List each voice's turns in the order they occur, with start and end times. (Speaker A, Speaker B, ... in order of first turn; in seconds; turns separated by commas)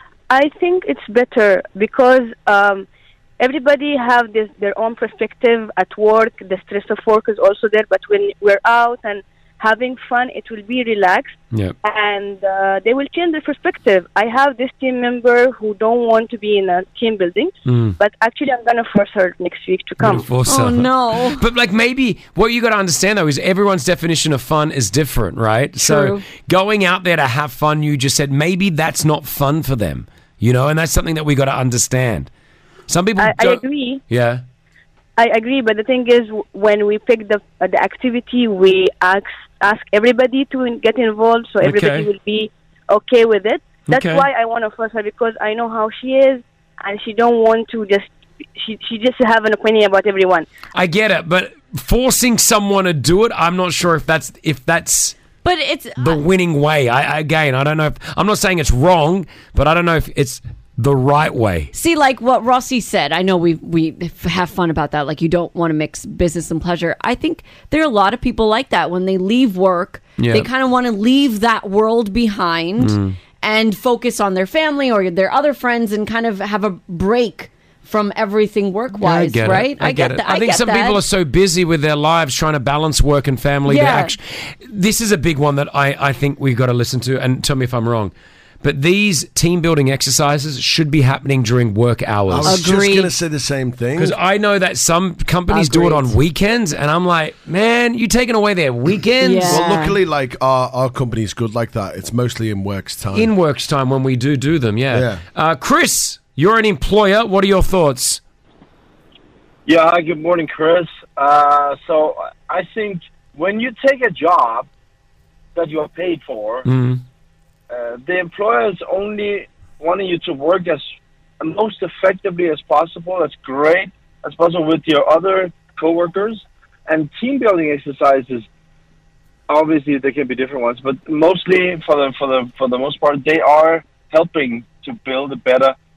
Speaker A: 0.3-2.9, Speaker A: 3.4-20.2, Speaker B: 17.6-17.9, Speaker B: 20.0-32.3, Speaker C: 20.4-21.4, Speaker C: 25.8-26.2, Speaker B: 32.9-34.4, Speaker A: 33.2-34.0, Speaker A: 35.2-50.5, Speaker B: 41.6-42.1, Speaker B: 43.9-44.3, Speaker B: 50.7-55.1, Speaker C: 55.4-56.2, Speaker B: 56.0-61.7, Speaker C: 61.7-81.0, Speaker B: 70.2-70.5, Speaker B: 72.8-73.2, Speaker B: 79.0-92.6, Speaker C: 83.7-84.1, Speaker D: 92.3-94.1, Speaker C: 92.5-93.1, Speaker B: 94.0-99.6, Speaker C: 95.5-96.1, Speaker C: 99.2-100.0, Speaker D: 99.5-103.3, Speaker B: 103.1-108.2, Speaker D: 104.9-105.2, Speaker E: 109.7-114.7, Speaker E: 115.5-116.7, Speaker B: 116.7-117.0, Speaker E: 117.7-120.8, Speaker E: 121.4-128.4, Speaker E: 129.5-135.7